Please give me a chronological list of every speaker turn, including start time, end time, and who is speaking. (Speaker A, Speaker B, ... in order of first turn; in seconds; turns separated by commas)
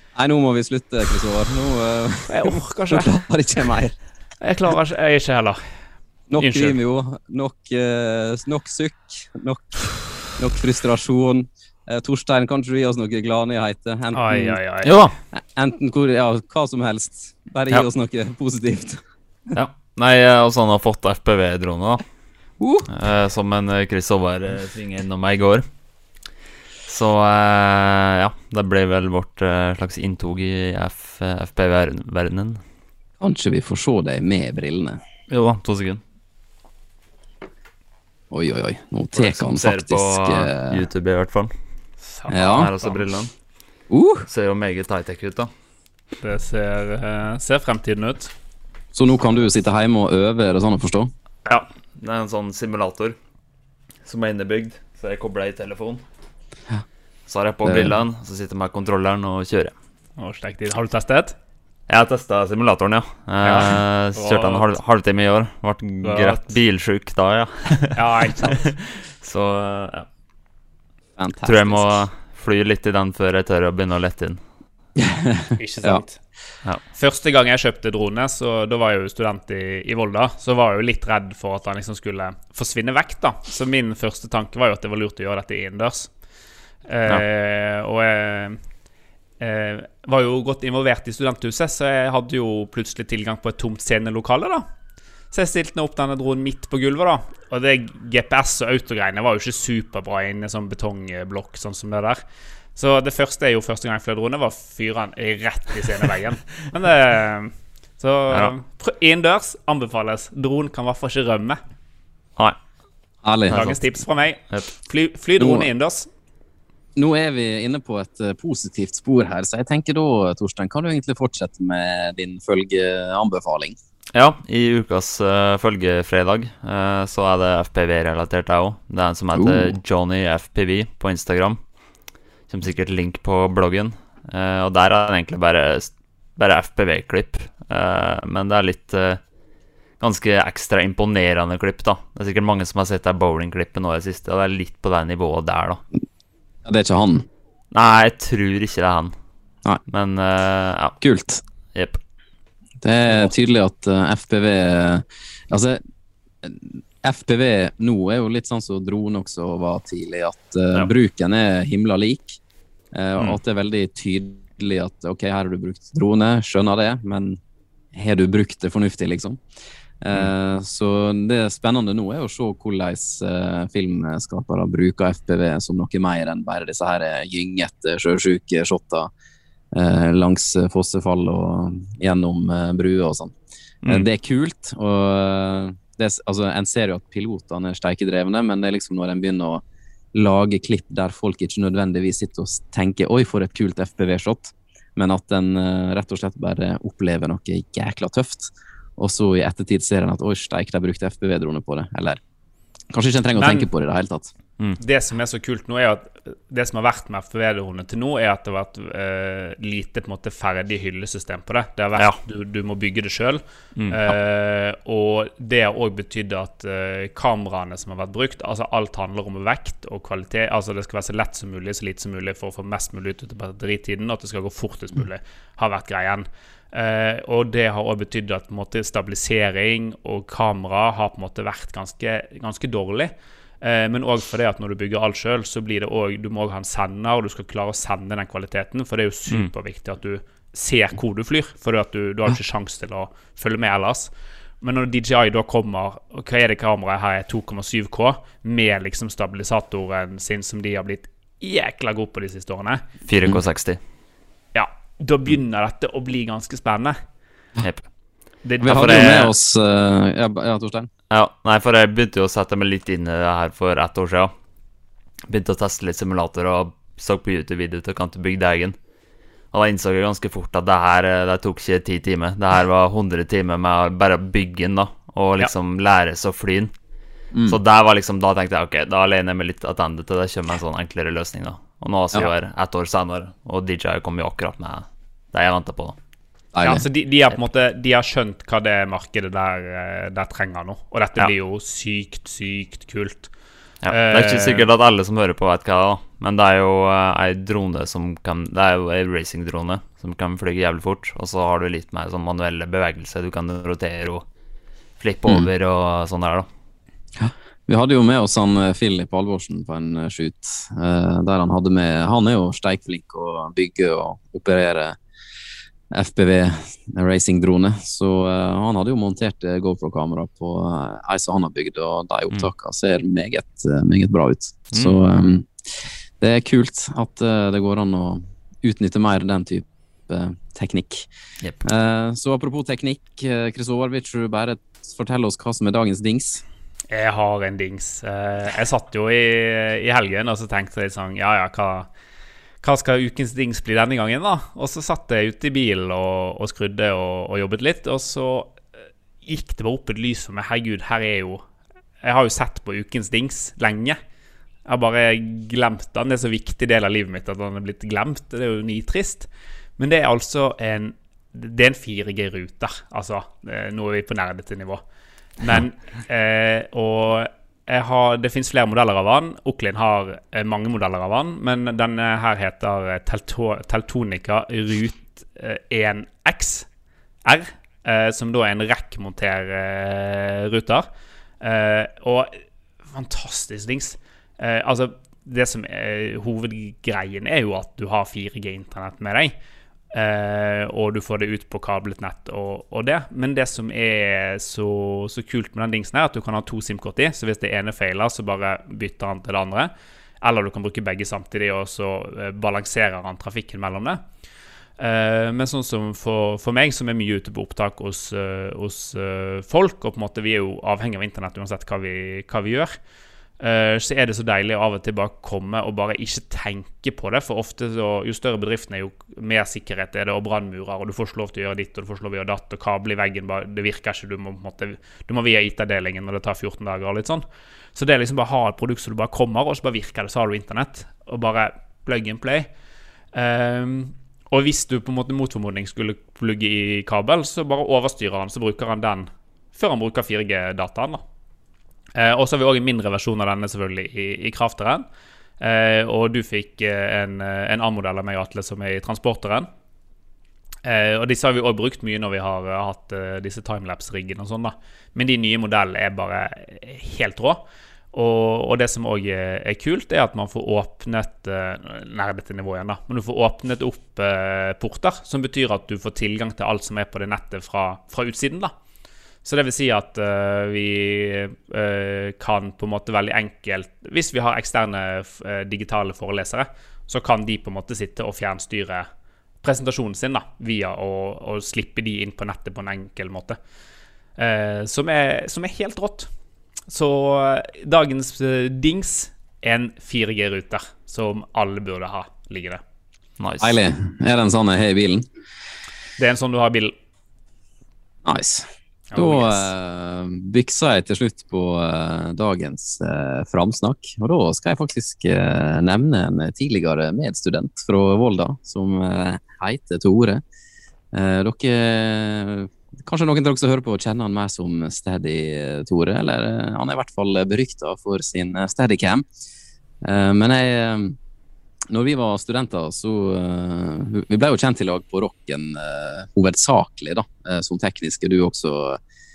Speaker A: 0.1-4.0, Speaker B: 2.3-3.1, Speaker B: 4.4-5.6, Speaker A: 6.3-19.0, Speaker B: 6.4-6.8, Speaker B: 14.1-14.9, Speaker C: 19.5-22.1, Speaker A: 22.6-22.9, Speaker C: 22.9-25.6, Speaker C: 26.9-32.6, Speaker A: 33.2-35.0, Speaker C: 35.3-36.0, Speaker A: 38.3-40.9, Speaker C: 39.1-41.5, Speaker B: 42.0-43.1, Speaker A: 42.3-42.7, Speaker C: 42.4-43.3, Speaker A: 43.9-44.3, Speaker C: 44.3-45.5, Speaker B: 46.2-48.3, Speaker A: 48.9-51.1, Speaker C: 51.5-53.2, Speaker C: 54.0-56.0, Speaker C: 57.3-59.7, Speaker A: 57.6-57.9, Speaker B: 60.2-61.3, Speaker C: 61.9-70.1, Speaker B: 63.4-64.7, Speaker B: 66.0-66.5, Speaker B: 68.0-68.7, Speaker A: 71.2-72.0, Speaker C: 71.5-74.4, Speaker A: 75.0-76.0, Speaker B: 75.6-76.2, Speaker B: 76.9-86.1, Speaker B: 86.9-88.6, Speaker B: 89.4-94.6, Speaker B: 95.3-102.2, Speaker B: 102.8-111.6, Speaker A: 113.2-113.6, Speaker C: 113.5-113.8, Speaker B: 113.5-116.1, Speaker A: 115.4-115.7, Speaker A: 117.0-123.8, Speaker C: 124.1-131.6, Speaker A: 129.3-129.8, Speaker C: 132.5-139.2, Speaker C: 140.0-145.8, Speaker A: 146.7-147.3, Speaker C: 147.7-149.1, Speaker C: 149.9-151.0, Speaker A: 151.0-151.4, Speaker C: 151.7-152.0, Speaker A: 152.8-155.8, Speaker A: 156.4-162.4, Speaker A: 162.9-167.4, Speaker A: 167.9-169.4, Speaker A: 170.0-179.1, Speaker A: 179.7-183.3, Speaker A: 183.9-189.6, Speaker A: 190.1-202.2, Speaker A: 202.9-204.3, Speaker B: 203.4-203.7, Speaker B: 204.8-252.8, Speaker C: 213.8-214.1, Speaker C: 253.1-253.8, Speaker B: 254.6-257.0, Speaker B: 258.4-259.3, Speaker A: 258.6-260.9, Speaker C: 258.7-259.3, Speaker C: 261.1-264.3, Speaker C: 265.3-268.8, Speaker C: 269.5-276.7, Speaker A: 277.3-277.6, Speaker C: 277.5-286.0, Speaker A: 286.5-286.8, Speaker B: 286.6-293.3, Speaker C: 293.8-304.2, Speaker B: 293.9-294.6, Speaker C: 305.0-306.5, Speaker A: 307.2-315.0, Speaker A: 315.9-331.1, Speaker C: 324.7-325.0, Speaker A: 331.6-336.4, Speaker B: 336.9-341.9, Speaker B: 342.6-348.6, Speaker B: 349.2-351.4, Speaker B: 352.0-354.0, Speaker B: 354.7-364.8, Speaker B: 365.4-376.7, Speaker B: 377.2-380.9, Speaker B: 381.4-389.3, Speaker B: 389.9-399.7, Speaker B: 400.2-404.0, Speaker B: 404.8-412.8, Speaker B: 413.4-427.2, Speaker B: 427.8-432.5, Speaker B: 433.1-441.0, Speaker B: 441.9-444.9, Speaker B: 445.4-449.5, Speaker B: 450.6-468.5, Speaker B: 469.2-478.9, Speaker B: 479.4-483.4, Speaker B: 484.2-486.1, Speaker B: 486.7-492.6, Speaker C: 493.2-493.6, Speaker A: 493.4-495.1, Speaker B: 496.0-496.7, Speaker A: 498.1-510.2, Speaker B: 498.9-499.5, Speaker A: 510.9-519.0, Speaker A: 519.8-521.0, Speaker A: 521.7-528.8